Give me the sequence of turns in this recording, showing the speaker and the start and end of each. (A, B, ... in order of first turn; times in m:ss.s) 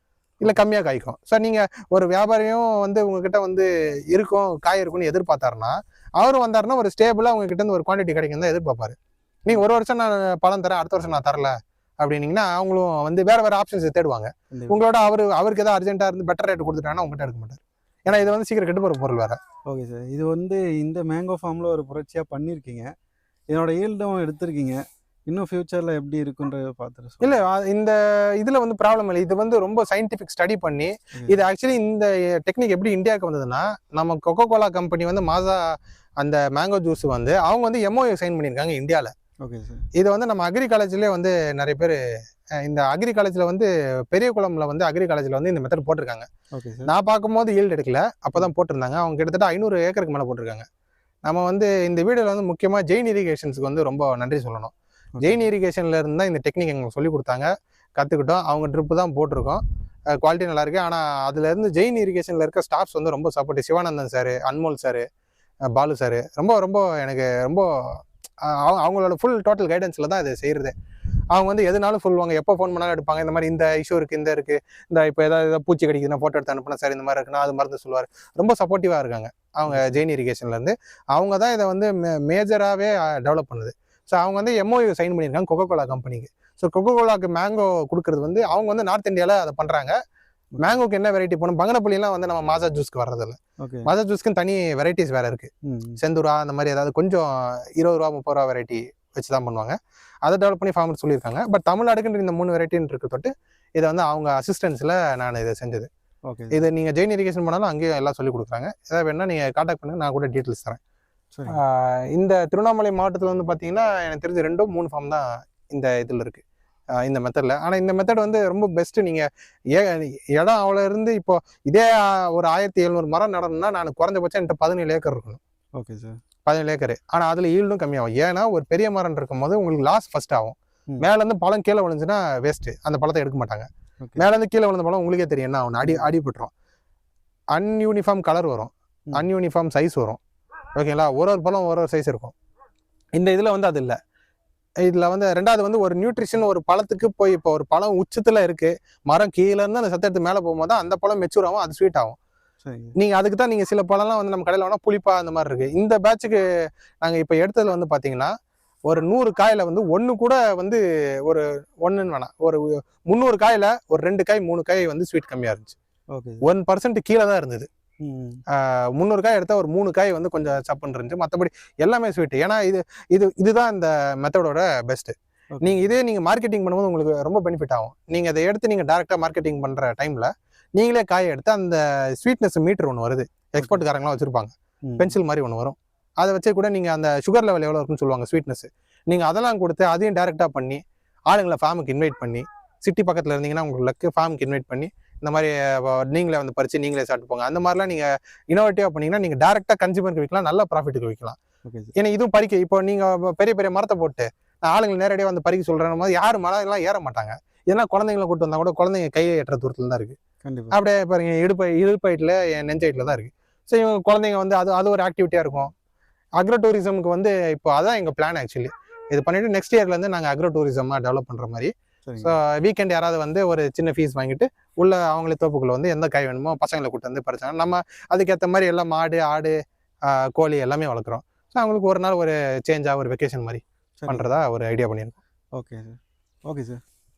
0:00.4-0:19.4 A
0:14.5-0:14.8 B
0:19.7-0:22.9 B
0:23.5-0:27.4 B
0:27.2-0:39.1 A
0:39.4-0:39.8 B
0:40.0-0:42.0 A
0:42.6-0:46.3 A
0:46.5-0:46.9 B
0:46.9-0:50.6 A
0:51.2-0:59.6 A
0:55.2-0:55.4 B
1:00.2-1:05.0 A
1:05.7-1:10.7 A
1:11.3-1:29.9 A
1:19.7-1:20.0 B
1:30.6-1:45.9 A
1:33.6-1:33.9 B
1:35.6-1:36.0 B
1:46.3-1:46.6 B
1:46.5-1:50.8 A
1:51.5-1:56.4 A
1:57.0-2:05.4 A
2:05.8-2:06.2 B
2:06.4-2:16.5 A
2:17.5-2:20.2 A
2:20.8-2:22.3 A
2:23.2-2:24.0 A
2:24.8-2:32.2 A
2:32.6-2:32.9 B
2:33.0-2:36.4 A
2:37.0-2:38.3 A
2:38.9-2:45.8 A
2:46.1-2:46.4 B
2:46.4-2:47.7 A
2:48.0-2:48.4 B
2:48.5-3:21.4 A
2:55.6-2:55.8 B
3:04.9-3:05.1 B
3:21.6-3:21.9 B
3:22.0-3:30.2 A
3:30.4-3:30.8 B
3:30.7-3:35.7 A
3:36.4-3:49.6 A
3:42.1-3:42.3 B
3:50.1-3:55.2 A
3:55.6-3:56.8 B